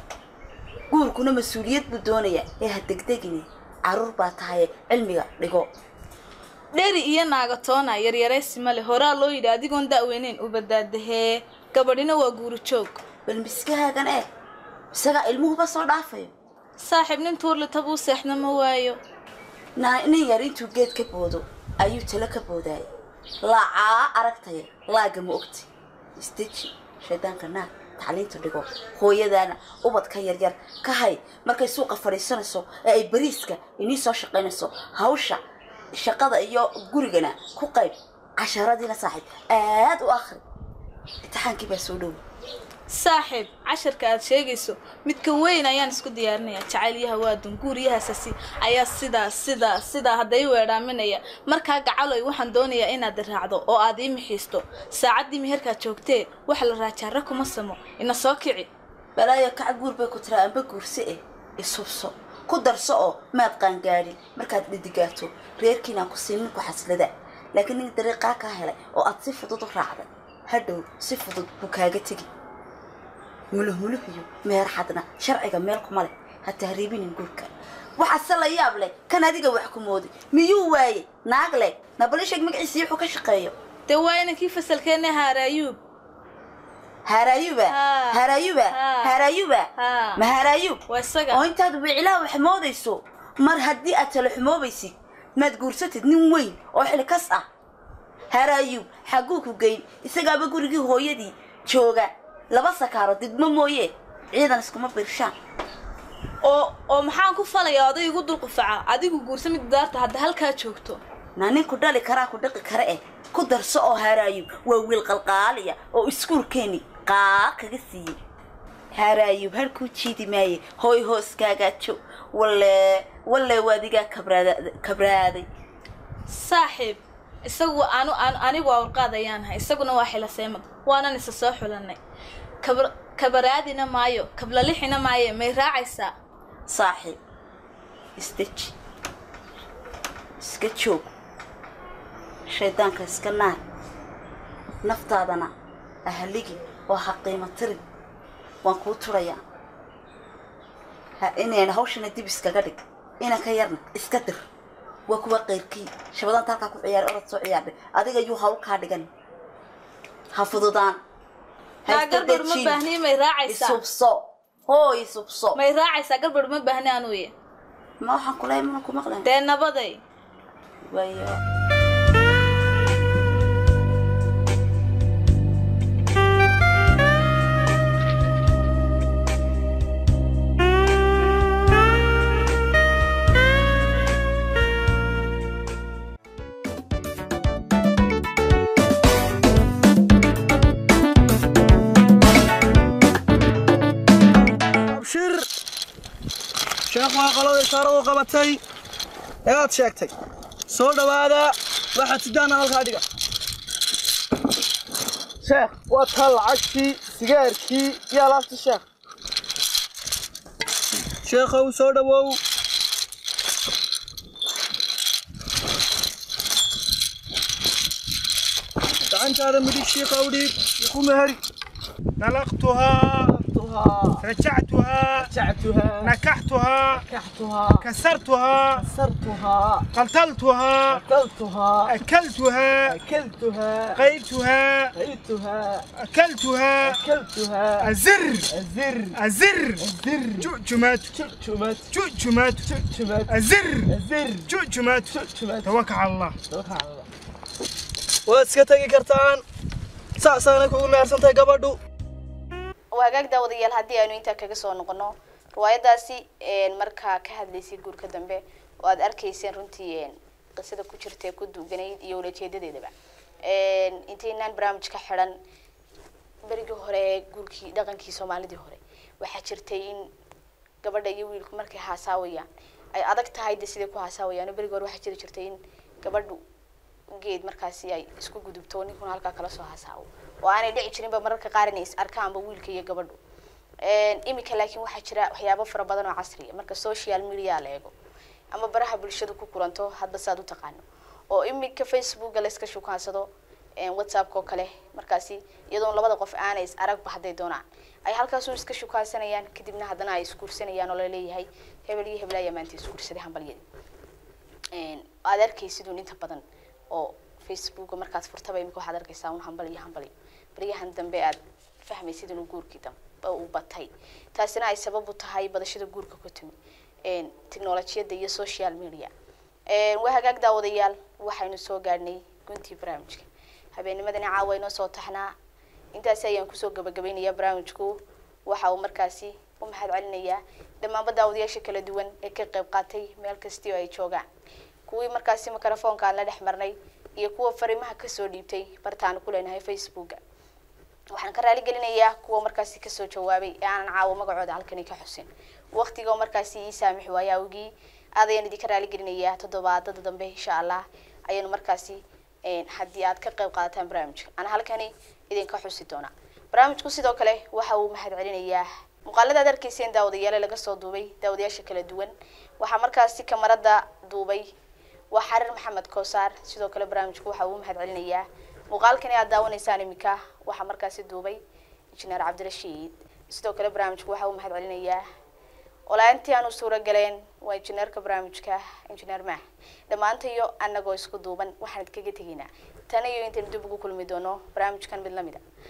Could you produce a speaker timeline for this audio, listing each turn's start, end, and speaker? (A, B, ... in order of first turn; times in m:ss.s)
0:00.9-0:05.7 A
0:06.7-0:13.0 B
0:13.2-0:14.3 A
0:14.9-0:16.3 A
0:16.8-0:19.0 B
0:19.8-0:22.8 A
0:23.4-0:35.4 A
0:35.9-0:40.4 A
0:41.2-0:42.2 A
0:42.9-0:58.7 B
0:59.2-1:12.3 A
1:13.5-1:23.5 A
1:23.9-1:25.8 B
1:27.0-1:37.4 A
1:27.7-1:28.2 B
1:28.7-1:29.2 B
1:29.8-1:30.2 B
1:30.9-1:31.4 B
1:38.3-1:45.3 A
1:46.4-1:51.0 B
1:51.4-1:58.2 A
1:59.0-2:05.4 A
2:06.3-2:12.0 B
2:12.6-2:16.1 B
2:16.7-2:17.2 A
2:18.2-2:18.7 A
2:20.4-2:21.1 A
2:22.5-2:23.6 A
2:24.8-2:25.5 A
2:26.0-2:27.8 A
2:28.6-2:29.4 A
2:31.2-2:34.4 A
2:35.1-2:39.1 A
2:40.3-2:41.0 A
2:41.8-2:42.8 A
2:41.9-2:43.8 B
2:43.5-2:45.6 A
2:45.6-2:47.3 B
2:48.0-2:49.3 A
2:49.2-2:50.0 B
2:50.8-2:51.4 A
3:14.9-3:15.4 C
3:16.9-3:18.6 C
3:19.4-3:20.1 C
3:20.7-3:23.0 C
3:25.4-3:28.8 C
3:31.2-3:32.4 C
3:39.1-3:41.4 C
3:42.2-3:43.3 D
3:43.3-3:44.2 C
3:44.2-3:45.3 D
3:45.2-3:46.1 C
3:46.0-3:47.0 D
3:46.9-3:47.9 C
3:47.8-3:48.8 D
3:48.8-3:49.9 C
3:49.9-3:51.0 D
3:50.9-3:52.0 C
3:51.9-3:53.0 D
3:52.9-3:54.0 C
3:54.0-3:54.9 D
3:54.9-3:55.9 C
3:56.0-3:57.0 D
3:56.8-3:57.9 C
3:57.8-3:58.4 D
3:58.5-3:59.2 C
3:59.2-3:59.8 D
3:59.8-4:00.5 C
4:00.4-4:01.1 D
4:01.1-4:01.9 C
4:01.9-4:02.7 D
4:02.6-4:04.5 C
4:03.3-4:03.9 D
4:04.5-4:06.3 D
4:05.1-4:05.8 C
4:06.5-4:07.0 C
4:08.3-4:09.4 C
4:10.2-4:11.8 C
4:12.9-4:22.9 E
4:23.4-4:25.3 E
4:26.4-4:30.1 E
4:30.8-4:36.4 E
4:37.2-4:43.2 E
4:43.8-4:47.9 E
4:48.5-4:53.3 E
4:53.8-5:03.6 E
5:04.7-5:16.5 E
5:17.0-5:19.1 E
5:19.7-5:25.3 E
5:25.9-5:34.2 E
5:34.9-5:40.2 E
5:41.1-6:04.4 E
6:05.1-6:11.4 E
6:11.9-6:15.0 E
6:15.9-6:25.4 E